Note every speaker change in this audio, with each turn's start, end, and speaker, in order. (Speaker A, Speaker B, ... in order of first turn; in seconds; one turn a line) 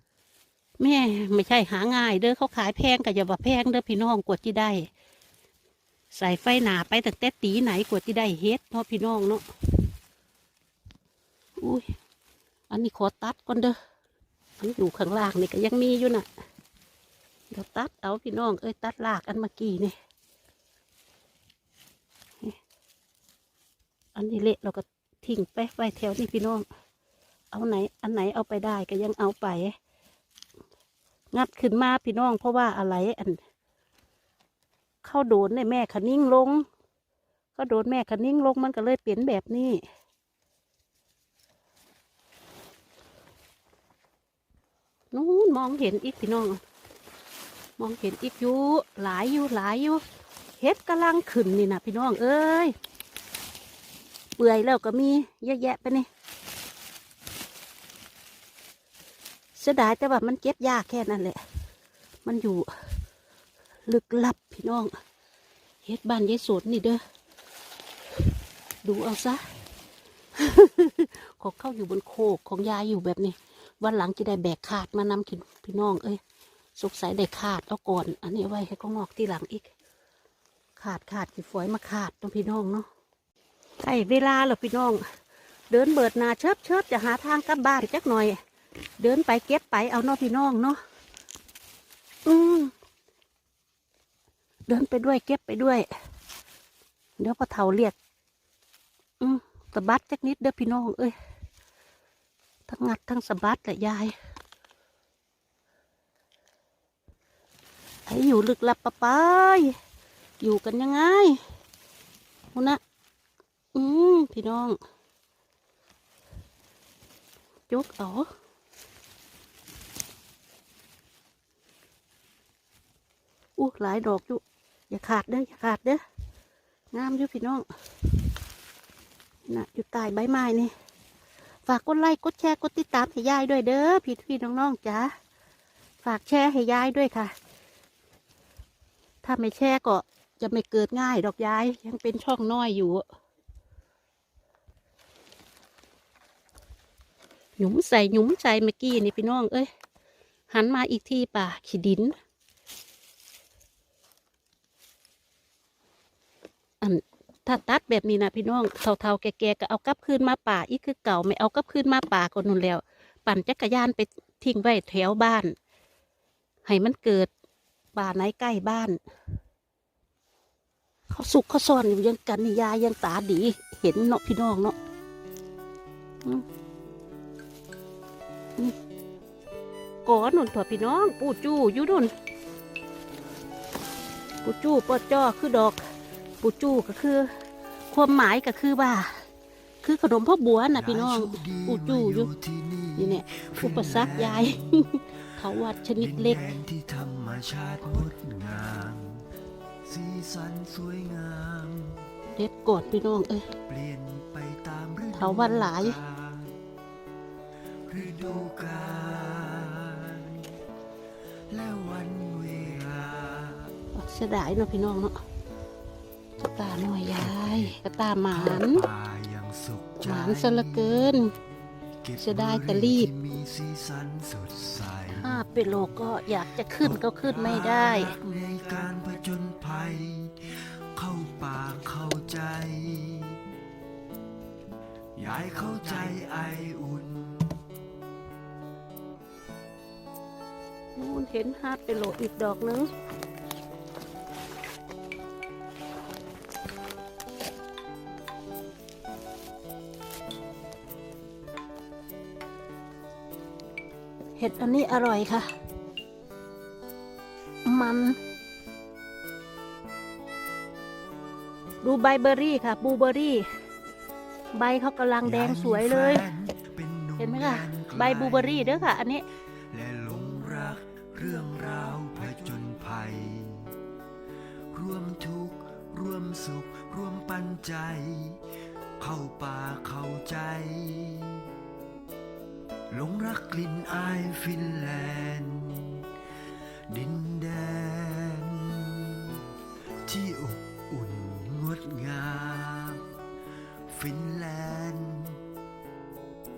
Speaker A: 0.8-4.9
Speaker A: 6.1-9.4
Speaker A: 11.6-11.9
Speaker A: 12.7-13.8
Speaker A: 14.6-16.3
Speaker A: 17.5-19.9
Speaker A: 24.1-26.6
Speaker A: 27.5-29.7
Speaker A: 31.3-33.4
Speaker A: 35.0-36.6
Speaker A: 37.5-39.8
Speaker A: 45.1-46.6
Speaker A: 47.8-50.0
Speaker A: 50.6-52.7
Speaker A: 54.4-56.1
Speaker A: 59.6-61.4
Speaker A: 62.2-62.9
Speaker A: 63.9-64.9
Speaker A: 65.8-67.0
Speaker A: 68.8-69.4
Speaker A: 70.3-76.2
Speaker A: 76.8-79.7
Speaker A: 80.8-82.9
Speaker A: 83.8-85.0
Speaker A: 85.7-88.4
Speaker A: 89.0-90.8
Speaker A: 92.2-92.7
Speaker A: 94.7-95.9
Speaker A: 97.2-98.0
Speaker A: 99.2-101.1
Speaker A: 102.7-104.1
Speaker A: 108.1-109.8
Speaker A: 110.4-111.4
Speaker A: 112.5-112.8
Speaker A: 113.8-114.8
Speaker A: 117.7-118.3
Speaker A: 123.6-126.0
Speaker A: 126.9-127.6
Speaker A: 129.5-130.7
Speaker A: 131.7-135.1
Speaker A: 136.0-137.3
Speaker A: 139.2-143.0
Speaker A: 147.6-149.7
Speaker A: 150.5-152.1
Speaker A: 156.8-165.5
Speaker A: 166.6-167.3
Speaker A: 168.0-169.0
Speaker A: 171.1-174.8
Speaker A: 180.1-182.1
Speaker A: 184.4-185.8
Speaker A: 186.4-187.3
Speaker A: 187.9-189.2
Speaker A: 189.8-192.3
Speaker B: 190.7-194.9
Speaker A: 193.0-196.6
Speaker B: 196.0-199.2
Speaker B: 199.8-202.1
Speaker A: 202.3-203.5
Speaker B: 203.7-206.6
Speaker A: 205.1-206.0
Speaker B: 207.9-210.5
Speaker B: 211.5-213.7
Speaker A: 213.9-215.2
Speaker A: 216.4-218.8
Speaker B: 217.2-217.7
Speaker B: 218.3-221.2
Speaker A: 220.0-221.3
Speaker B: 222.0-225.3
Speaker A: 222.2-223.1
Speaker A: 225.1-228.1
Speaker B: 226.8-233.4
Speaker B: 235.2-237.6
Speaker A: 241.0-242.9
Speaker A: 254.4-255.5
Speaker A: 257.6-258.2
Speaker A: 261.8-263.4
Speaker A: 264.5-266.3
Speaker B: 265.2-268.9
Speaker A: 267.2-269.2
Speaker B: 269.7-273.7
Speaker B: 274.7-278.4
Speaker B: 279.0-281.4
Speaker B: 282.9-286.1
Speaker B: 286.9-289.4
Speaker B: 290.0-293.0
Speaker B: 293.9-295.4